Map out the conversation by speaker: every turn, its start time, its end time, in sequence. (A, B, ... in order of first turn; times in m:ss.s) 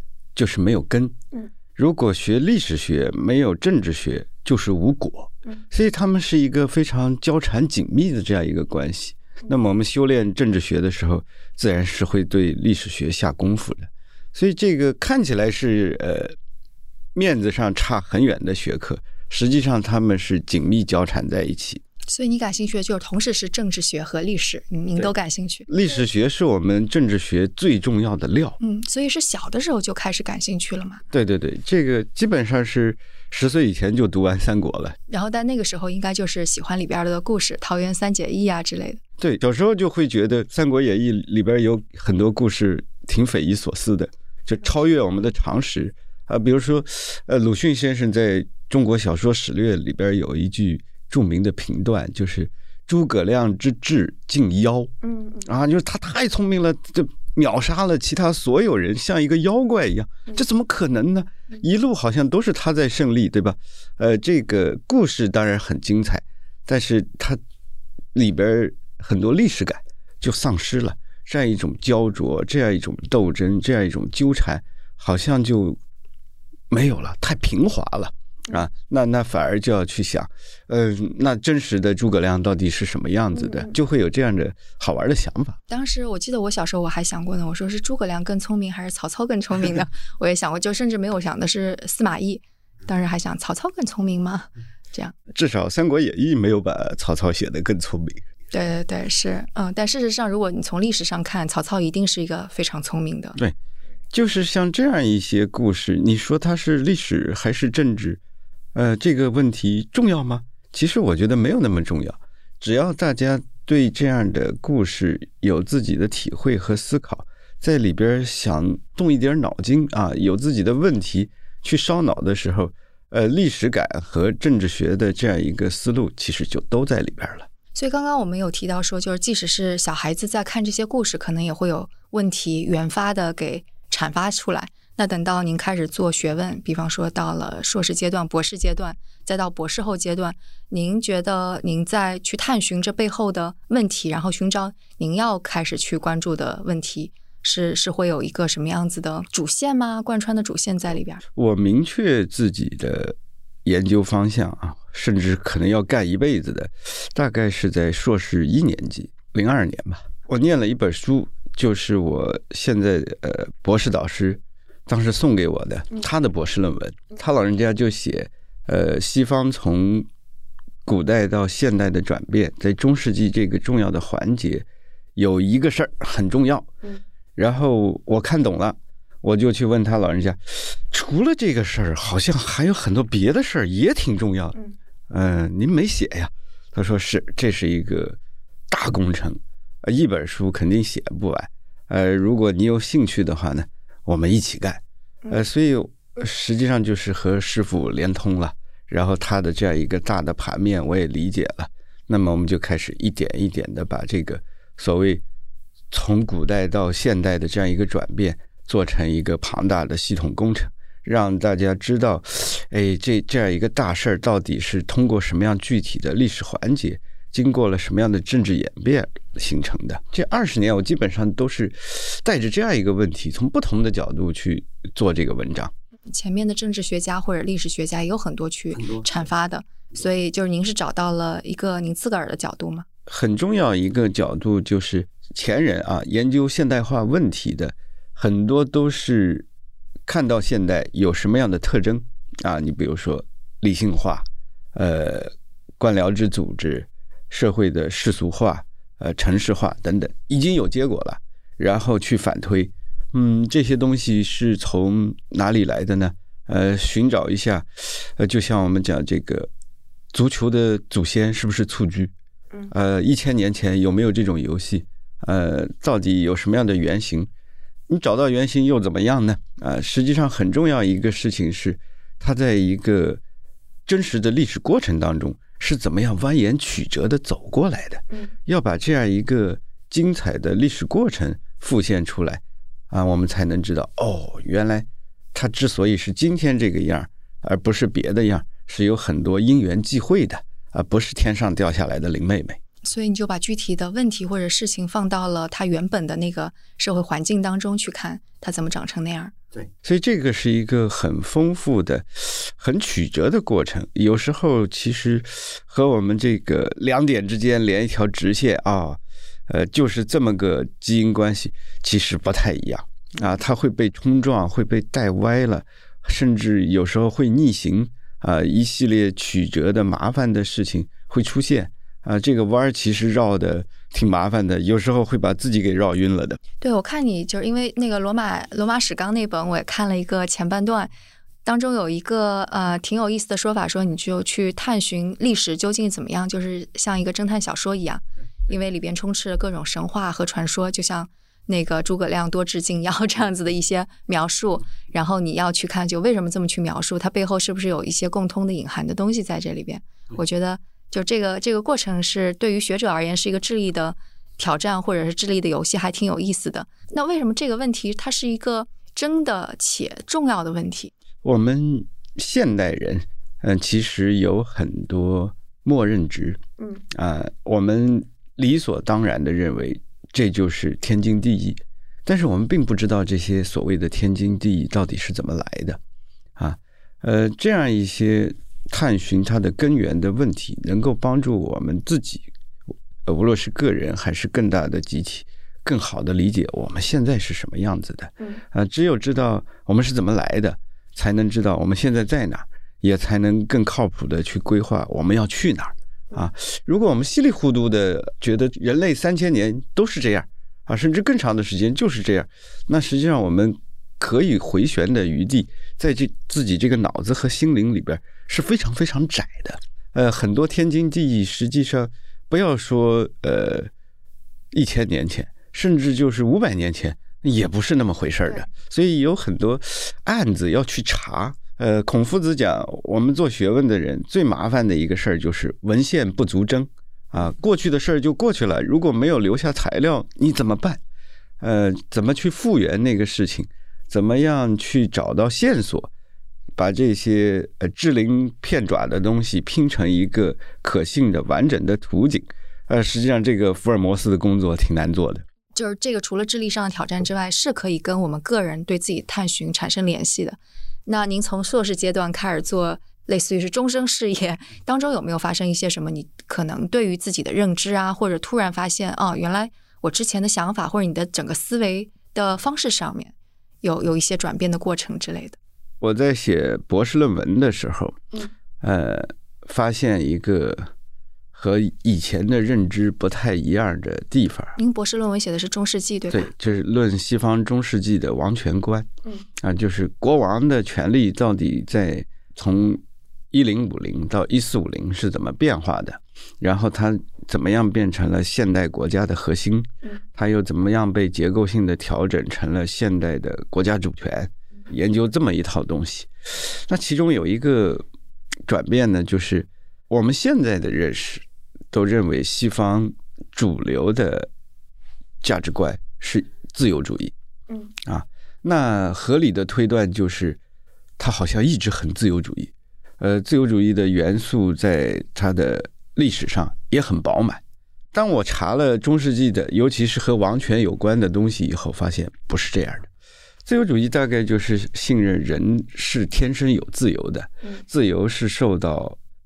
0:00.4-0:01.2 A
0:01.8-0:16.4 A
0:17.2-0:21.8 A
0:22.1-0:25.7 B
0:25.7-0:28.6 A
0:28.6-0:31.0 B
0:31.1-0:35.0 A
0:35.1-0:39.0 B
0:39.2-0:54.9 A
0:55.0-0:55.5 B
0:55.4-1:07.4 A
1:08.2-1:15.8 A
1:16.7-1:25.6 A
1:23.4-1:23.7 B
1:25.7-1:35.2 B
1:35.3-1:38.2 A
1:38.5-1:43.4 B
1:44.1-1:48.2 A
1:48.8-2:07.5 A
2:07.7-2:31.2 B
2:31.4-2:50.1 A
2:50.9-2:56.7 A
2:57.4-3:04.6 A
3:05.1-3:08.2 A
3:08.7-3:25.2 A
3:25.9-3:45.7 A
3:46.1-3:52.9 B
3:48.7-3:49.3 A
3:53.1-3:59.5 A
4:00.1-4:19.5 A
4:20.1-4:22.1 A
4:22.7-4:27.3 A
4:27.9-4:33.2 A
4:33.9-4:52.6 A
4:52.8-4:59.3 B
4:59.7-5:26.4 A
5:26.6-5:30.9 B
5:31.4-6:00.9 B
6:01.2-6:06.4 A
6:06.9-6:15.8 A
6:16.4-6:22.3 A
6:23.1-6:53.7 A
6:54.5-7:10.8 A
7:11.4-7:15.9 A
7:16.6-7:25.2 A
7:25.5-7:45.4 B
7:45.8-7:48.0 A
7:48.6-7:50.7 A
7:51.3-7:54.6 A
7:54.6-7:56.3 B
7:56.1-7:58.9 A
7:59.4-8:02.8 A
8:03.3-8:17.8 A
8:18.5-8:24.3 A
8:25.2-8:27.1 A
8:27.8-8:30.4 A
8:31.0-8:37.4 A
8:37.9-8:42.9 A
8:43.5-8:49.0 A